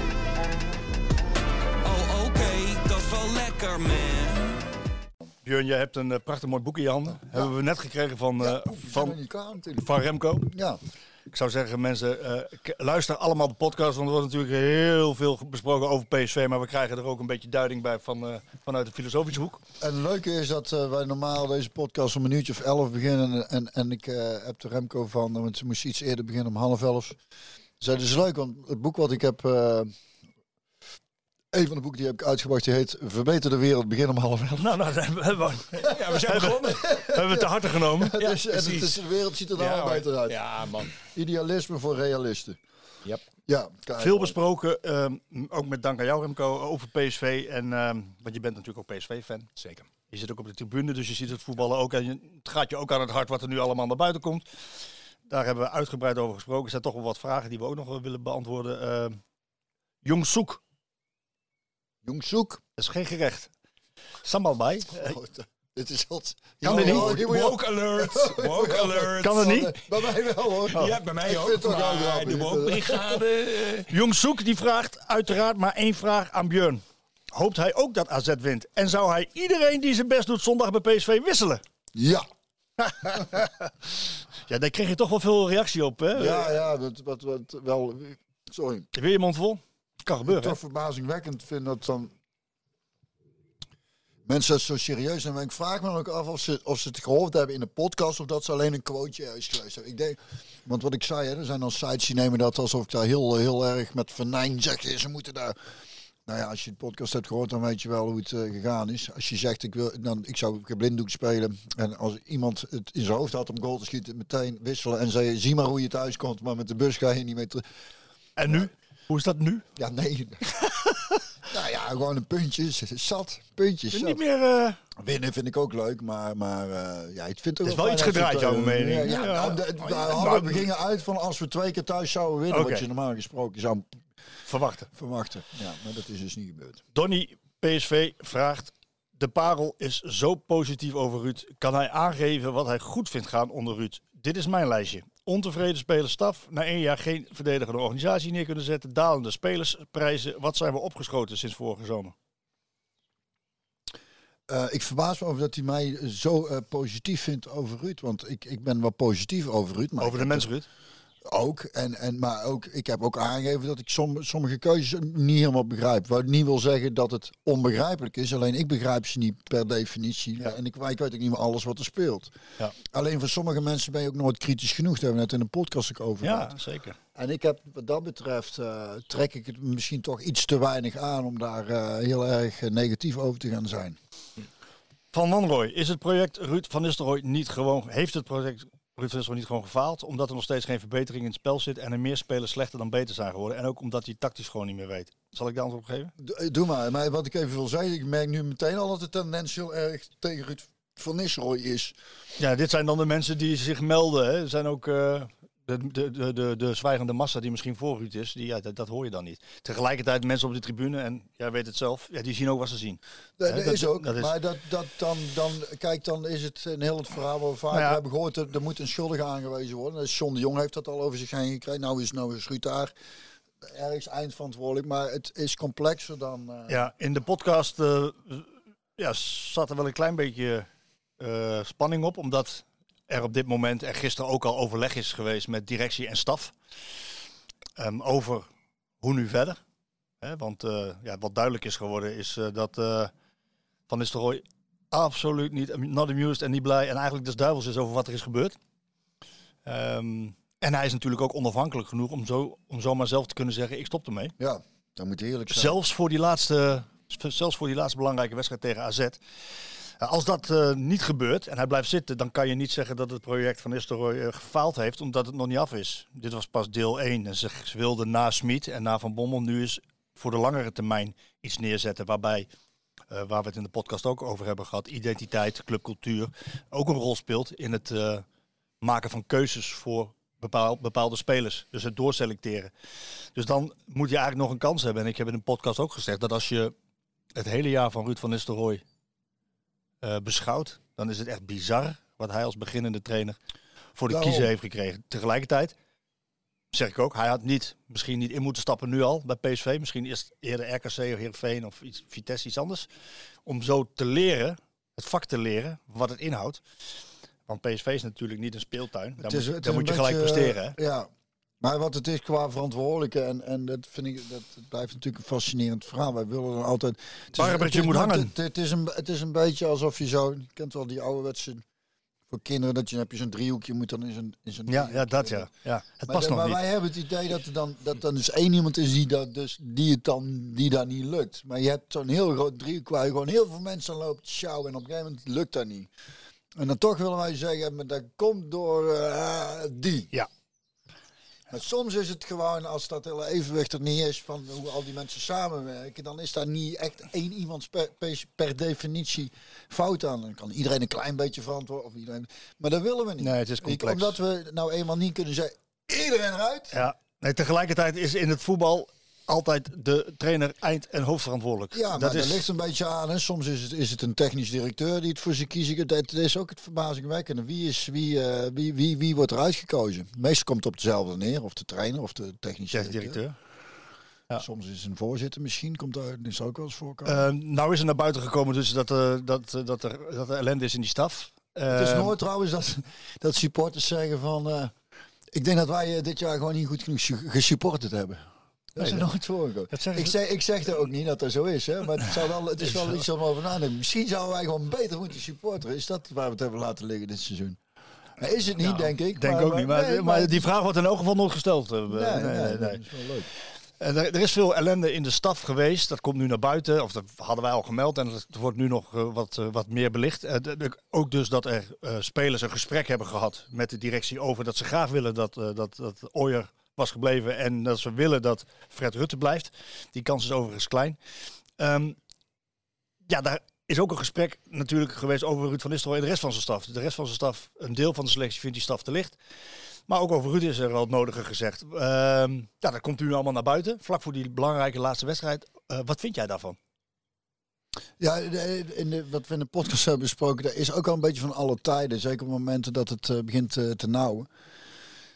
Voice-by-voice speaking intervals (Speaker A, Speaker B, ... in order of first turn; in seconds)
Speaker A: 1.8-4.8
Speaker B: 5.4-9.2, 9.8-10.5, 11.3-19.6, 34.6-38.2, 44.0-49.5, 50.1-54.4, 55.3-59.1, 60.0-60.6, 62.8-63.5, 64.2-65.1, 66.6-67.1, 69.2-69.7, 73.9-76.8, 77.3-81.6, 82.8-83.7, 84.4-86.6, 88.9-90.6, 118.4-119.6, 120.6-121.3, 123.9-124.8, 127.6-130.7, 132.5-132.8, 134.4-134.9, 136.9-152.1, 160.0-160.7, 176.2-177.0, 185.1-196.1, 202.4-214.3, 217.7-218.0, 226.7-230.7, 231.2-236.5, 237.8-238.5, 239.0-239.6, 240.2-243.1, 243.9-248.6, 249.6-254.3, 255.5-272.5, 273.1-278.2, 278.8-282.7, 283.3-286.7, 287.4-288.8, 290.0-293.4, 293.9-295.8, 296.7-302.9, 303.4-306.6, 307.5-310.8, 317.3-318.3, 324.7-326.6, 353.2-354.2, 356.7-362.4, 372.7-373.4, 377.0-382.1, 388.8-389.1, 389.7-390.1, 392.6-393.0, 399.1-402.8, 403.8-421.0, 421.6-422.0, 423.1-429.2, 429.9-436.6
Speaker C: 7.1-7.5, 8.4-9.9, 10.5-10.8, 19.8-27.2, 27.8-29.9, 31.5-34.7, 36.8-42.6, 43.5-44.4, 62.0-62.6, 65.0-73.2, 81.9-82.2, 86.1-88.9, 90.2-92.1, 94.2-105.5, 106.2-117.6, 119.8-120.4, 121.5-124.2, 125.0-133.8, 134.9-136.8, 154.5-160.5, 161.2-172.3, 172.9-176.5, 177.1-183.9, 196.2-201.9, 213.4-222.9, 223.6-226.8, 254.4-255.8, 294.1-294.5, 309.2-311.1, 311.6-321.6, 322.3-325.5, 326.1-335.9, 336.6-340.1, 341.5-356.8, 361.7-373.2, 374.4-377.3, 381.7-384.7, 385.3-388.2, 388.7-397.6, 398.2-400.5, 401.9-403.3, 438.0-444.3
Speaker D: 35.8-37.0, 38.1-41.0, 49.6-49.9, 66.7-69.5, 70.6-73.9, 398.6-398.9